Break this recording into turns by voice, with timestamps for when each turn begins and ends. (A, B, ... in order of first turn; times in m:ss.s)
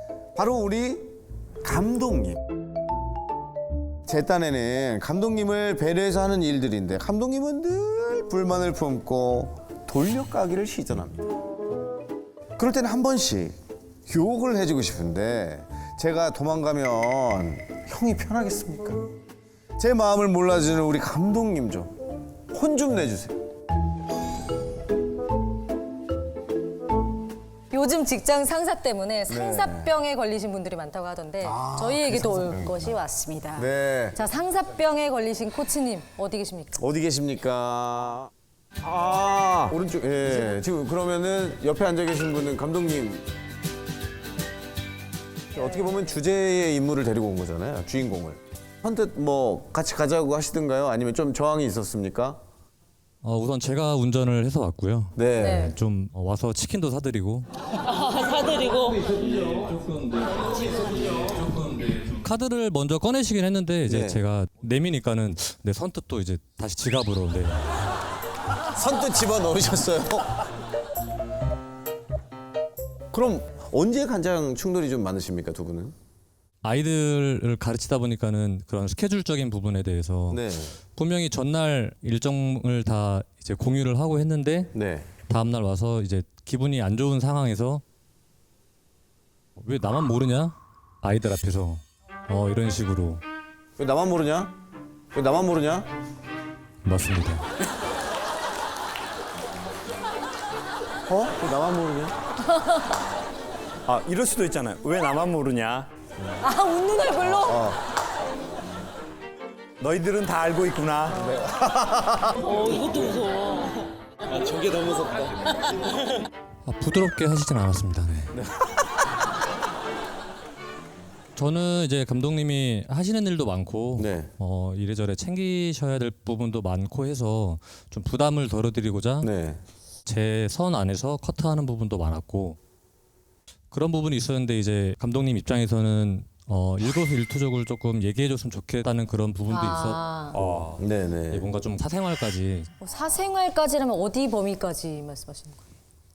0:00.4-0:01.1 A
0:01.6-0:02.4 A
0:04.0-0:11.2 A
0:12.6-0:13.5 A
0:14.1-0:19.0 A
0:19.8-0:21.9 A
0:22.5-0:23.4 A
0:27.7-0:36.8 B
0:29.3-0:29.9 A
0:31.4-0:33.0 A
0:33.5-0:34.2 A
0:36.8-0:38.3 A
0:38.8-0:43.2 A
0:45.5-0:52.4 A
0:45.6-0:45.9 B
0:53.2-0:57.5 C
0:55.2-0:55.7 A
0:55.4-0:55.7 B
0:57.9-0:59.0 D
0:59.0-1:07.6 C
1:03.8-1:04.2 A
1:08.7-1:10.4 A
1:13.1-1:15.9 A
1:16.6-1:24.7 C
1:20.3-1:20.8 A
1:24.7-1:25.1 A
1:25.3-1:27.8 C
1:29.6-1:33.2 C
1:33.8-1:34.5 A
1:35.1-1:35.9 A
1:36.8-1:37.4 C
1:41.1-1:42.2 A
1:42.5-1:42.8 B
1:43.8-1:45.9 E
1:46.4-1:47.6 B
1:47.3-1:47.8 A
1:49.8-1:51.2 E
1:51.2-1:52.4 A
1:52.4-1:53.8 D
1:54.4-1:55.2 A
1:56.6-1:58.3 C
2:01.4-2:09.3 C
2:04.0-2:04.3 A
2:09.2-2:09.6 A
2:10.0-2:12.6 C
2:13.7-2:20.0 C
2:19.5-2:20.3 B
2:20.3-2:20.8 E
2:20.8-2:21.5 A
2:21.3-2:22.7 C
2:22.8-2:25.6 B